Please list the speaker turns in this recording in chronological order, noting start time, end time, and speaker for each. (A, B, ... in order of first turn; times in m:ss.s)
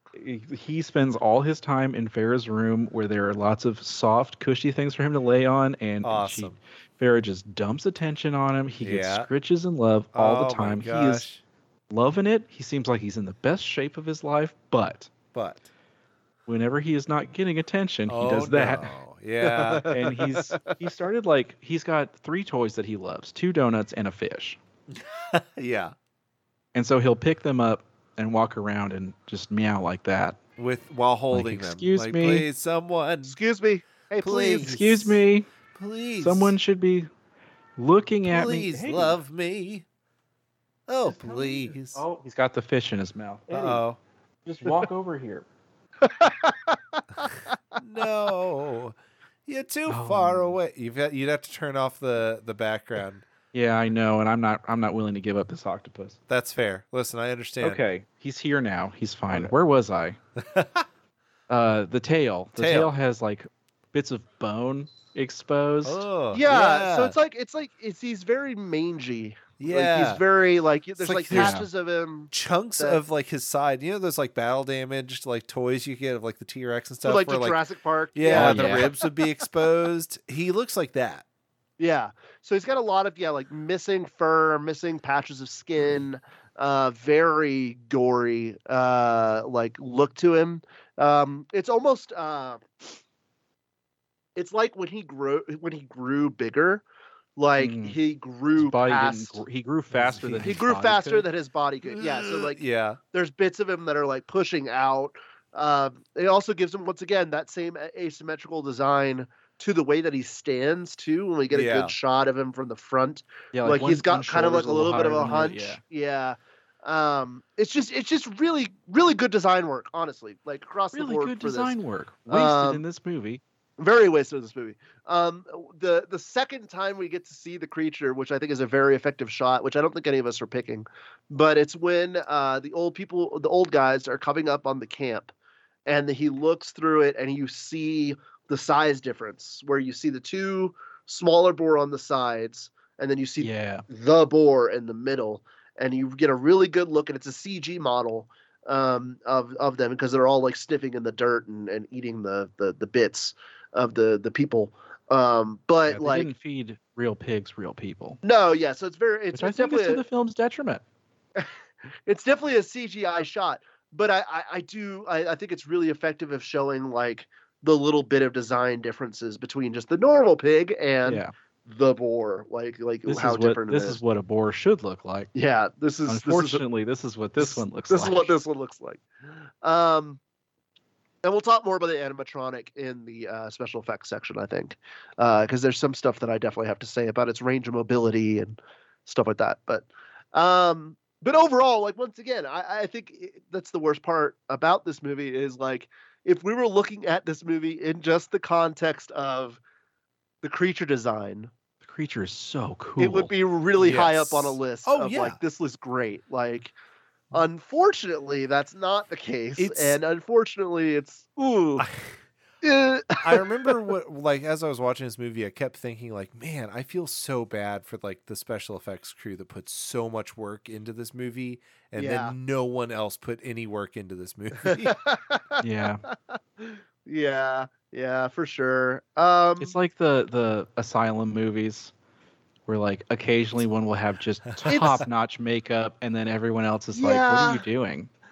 0:00.2-0:11.2 A
0:06.0-0:06.6 B
0:08.8-0:09.3 B
0:10.1-0:11.4 B
0:11.9-0:15.1 A
0:15.3-0:15.7 B
0:16.5-0:18.9 A
0:18.1-0:19.8 B
0:19.4-0:20.8 C
0:19.9-0:24.6 A
0:24.9-0:25.9 B
0:26.7-0:30.4 A
0:30.6-0:33.4 B
0:31.3-0:32.4 A
0:33.3-0:34.8 C
0:34.2-0:35.2 B
0:34.6-0:35.5 A
0:35.7-0:36.6 B
0:36.2-0:37.1 A
0:37.8-0:39.1 A
0:38.2-0:39.8 B
0:40.9-0:42.0 B
0:41.0-0:43.8 A
0:43.5-0:44.0 B
0:44.4-0:45.4 A
0:46.0-0:47.5 C
0:47.8-0:53.2 B
0:49.9-0:50.6 A
0:53.5-0:56.2 A
0:56.3-0:57.8 B
0:57.6-1:00.2 A
1:00.4-1:00.8 B
1:01.5-1:06.0 A
1:02.6-1:02.9 B
1:05.8-1:07.2 B
1:06.3-1:13.0 C
1:09.6-1:10.2 B
1:11.0-1:11.7 B
1:11.3-1:11.7 A
1:12.3-1:17.6 B
1:17.0-1:19.1 C
1:18.1-1:21.2 B
1:18.3-1:18.9 A
1:21.8-1:32.6 C
1:34.4-1:36.8 C
1:37.4-1:39.4 C
1:37.6-1:38.0 A
1:38.6-1:41.3 A
1:39.9-1:40.6 B
1:40.4-2:01.8 C
1:41.9-1:43.0 B
1:51.5-1:51.9 B
1:53.5-1:55.8 A
2:00.9-2:03.4 A
2:02.3-2:02.8 C
2:03.8-2:15.3 C
2:15.9-2:36.3 C
2:23.4-2:23.8 A
2:35.9-2:38.2 A
2:38.2-2:40.0 C
2:39.3-2:40.8 A
2:42.1-2:54.0 C
2:51.0-2:51.3 A
2:53.0-2:55.3 A
2:55.3-2:56.6 C
2:56.1-2:58.4 A
2:57.4-2:59.0 C
2:59.6-3:00.2 C
3:01.2-3:19.6 C
3:20.4-3:21.5 C
3:21.8-3:23.3 A
3:23.0-3:26.7 C
3:23.8-3:25.4 B
3:27.3-3:31.9 C
3:29.6-3:30.0 B
3:31.8-3:32.2 B
3:32.6-3:33.4 C
3:33.2-3:44.9 B
3:42.0-3:42.3 C
3:44.6-3:49.8 C
3:45.6-3:46.0 A
3:49.6-3:51.9 A
3:52.7-3:58.1 A
3:54.7-3:55.0 C
3:54.7-3:55.0 B
3:56.9-3:57.6 C